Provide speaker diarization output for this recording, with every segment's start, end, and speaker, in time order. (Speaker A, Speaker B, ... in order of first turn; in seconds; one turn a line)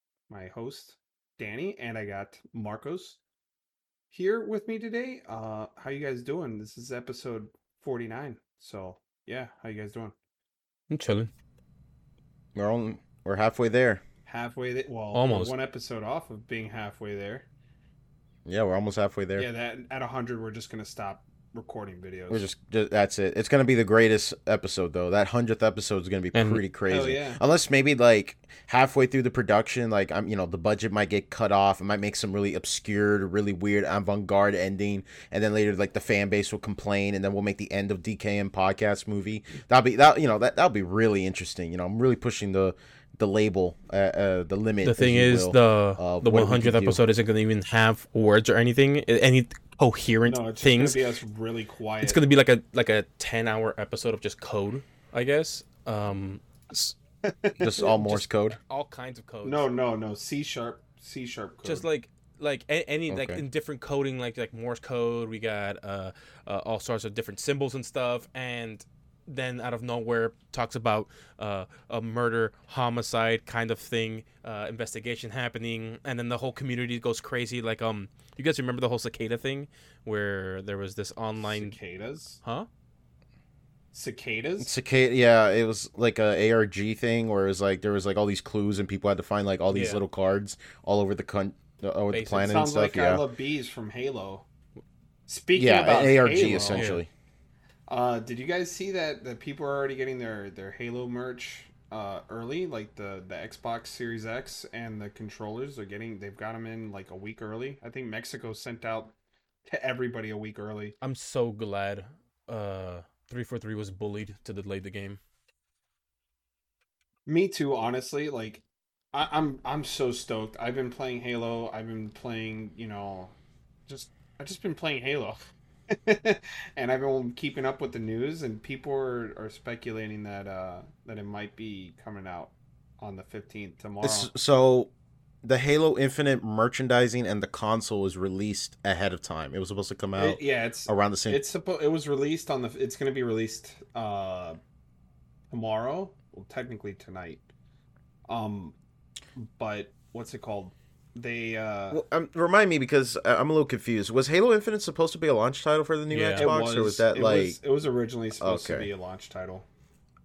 Speaker A: 0.3-3.2
Speaker A: 4.1-10.2
Speaker B: 10.9-11.3
Speaker C: 12.6-14.0
Speaker A: 14.3-17.5
Speaker B: 15.1-15.5
Speaker C: 18.5-19.5
Speaker A: 19.4-22.5
Speaker C: 22.3-47.0
Speaker B: 26.4-26.6
Speaker A: 26.9-27.4
Speaker B: 44.8-51.0
Speaker A: 50.3-52.2
Speaker B: 52.0-57.0
Speaker A: 57.2-57.8
Speaker C: 57.6-58.6
Speaker B: 57.7-59.7
Speaker A: 59.4-61.9
Speaker B: 61.6-81.8
Speaker C: 63.1-63.4
Speaker A: 81.4-82.4
Speaker B: 82.4-82.7
Speaker A: 83.9-84.7
Speaker C: 84.6-93.2
Speaker B: 89.7-90.0
Speaker B: 92.1-92.6
Speaker A: 92.5-94.5
Speaker A: 95.3-96.9
Speaker C: 95.6-97.1
Speaker B: 96.7-97.0
Speaker A: 97.9-109.1
Speaker A: 109.7-110.9
Speaker B: 111.0-115.2
Speaker A: 117.3-123.4
Speaker A: 123.9-134.3
Speaker C: 134.0-134.9
Speaker C: 135.4-141.4
Speaker A: 140.2-144.6
Speaker A: 145.5-147.5
Speaker A: 148.3-148.8
Speaker A: 149.4-152.0
Speaker C: 151.9-157.6
Speaker B: 156.1-156.5
Speaker A: 156.4-159.7
Speaker C: 158.4-158.9